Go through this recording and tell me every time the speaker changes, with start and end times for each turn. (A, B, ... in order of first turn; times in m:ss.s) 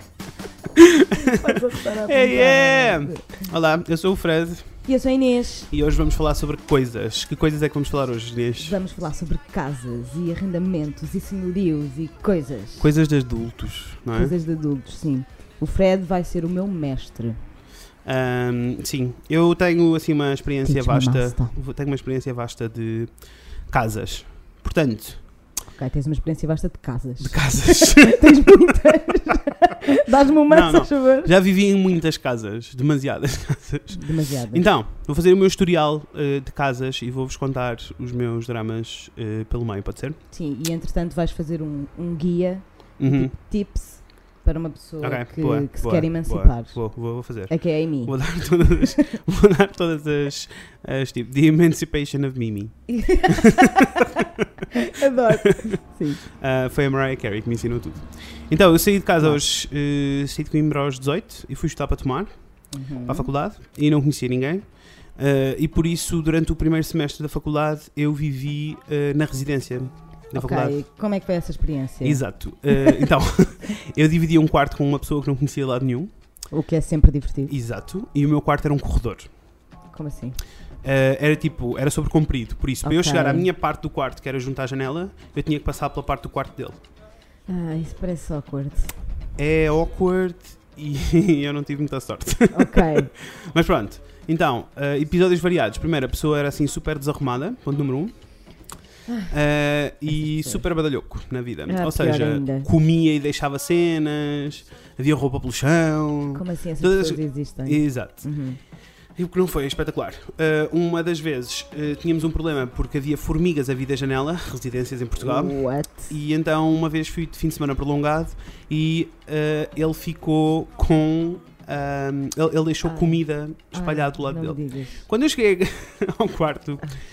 0:00.8-0:04.7 A
0:01.1-0:03.5 B
0:04.8-0:05.7 B
0:05.7-0:08.8 A
0:08.6-0:12.9 B
0:12.8-0:14.4 A
0:14.1-0:17.4 B
0:18.0-0:23.1 A
0:20.6-0:21.6 B
0:23.7-0:25.2 A
0:25.7-0:31.3 B
0:27.2-0:28.7 A
0:30.5-0:40.2 A
0:33.9-0:34.7 B
0:40.3-0:46.8 B
0:43.0-0:43.3 A
0:45.0-0:54.5 A
0:47.5-0:49.1 B
0:52.9-0:54.1 B
0:54.7-0:56.2 B
0:55.3-0:55.8 A
0:56.3-1:02.3 A
1:02.7-1:03.3 B
1:03.1-1:10.8 A
1:10.4-1:13.1 B
1:12.0-1:16.1 A
1:16.5-1:17.5 B
1:17.5-1:19.3 A
1:19.9-1:20.4 B
1:20.8-1:26.8 A
1:22.8-1:23.5 B
1:27.5-1:29.0 B
1:29.4-1:38.1 A
1:32.5-1:33.1 B
1:39.1-1:39.3 B
1:39.3-1:48.3 A
1:40.1-1:40.6 B
1:41.7-1:42.7 B
1:46.3-1:48.6 B
1:49.2-2:06.9 A
1:55.2-1:56.1 B
2:02.8-2:03.2 B
2:03.7-2:05.0 B